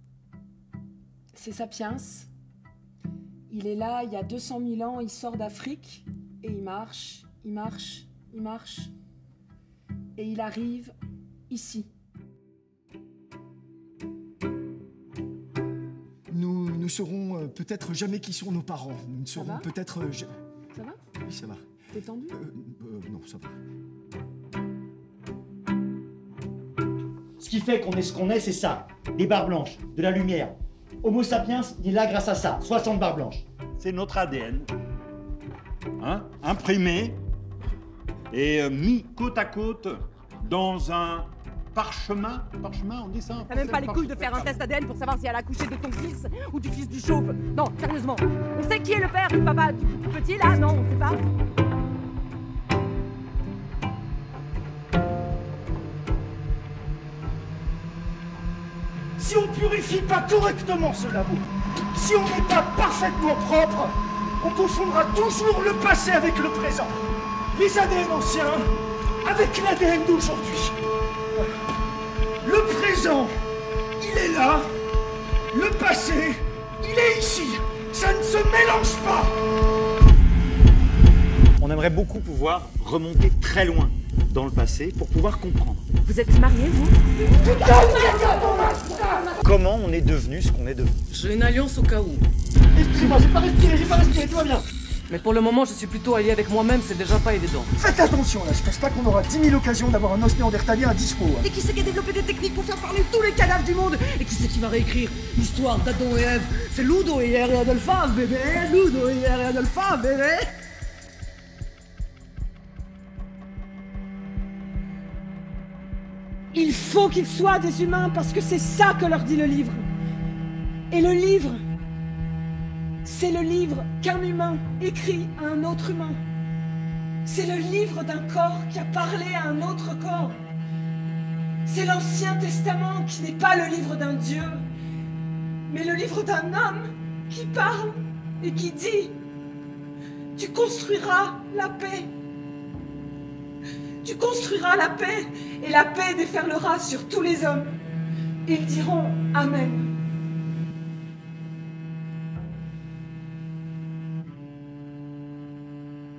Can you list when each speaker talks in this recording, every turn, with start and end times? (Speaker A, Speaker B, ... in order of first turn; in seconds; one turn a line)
Speaker A: 1.3-2.3
Speaker A: 3.5-8.9
Speaker A: 10.2-10.9
Speaker A: 11.5-11.9
Speaker B: 16.3-20.3
Speaker A: 19.3-19.7
Speaker A: 20.7-21.0
Speaker B: 21.2-21.6
Speaker A: 21.9-22.4
Speaker B: 22.4-23.5
Speaker C: 27.4-33.4
Speaker D: 33.8-34.7
Speaker D: 36.0-37.2
Speaker D: 38.3-44.6
Speaker E: 43.5-51.2
Speaker B: 59.2-66.9
Speaker B: 67.5-68.7
Speaker B: 69.2-70.8
Speaker B: 72.4-73.3
Speaker B: 74.0-74.7
Speaker B: 75.5-79.3
Speaker C: 81.6-85.8
Speaker E: 86.0-86.9
Speaker C: 87.5-87.9
Speaker B: 87.9-88.5
Speaker C: 89.0-90.9
Speaker F: 91.1-92.2
Speaker B: 92.8-94.6
Speaker F: 95.1-97.7
Speaker B: 97.8-101.5
Speaker E: 101.4-102.9
Speaker F: 101.6-110.5
Speaker A: 116.5-119.8
Speaker A: 120.9-121.6
Speaker A: 123.0-126.2
Speaker A: 127.2-130.4
Speaker A: 131.6-134.7
Speaker A: 135.7-139.2
Speaker A: 140.3-142.1
Speaker A: 144.0-147.7
Speaker A: 148.4-149.9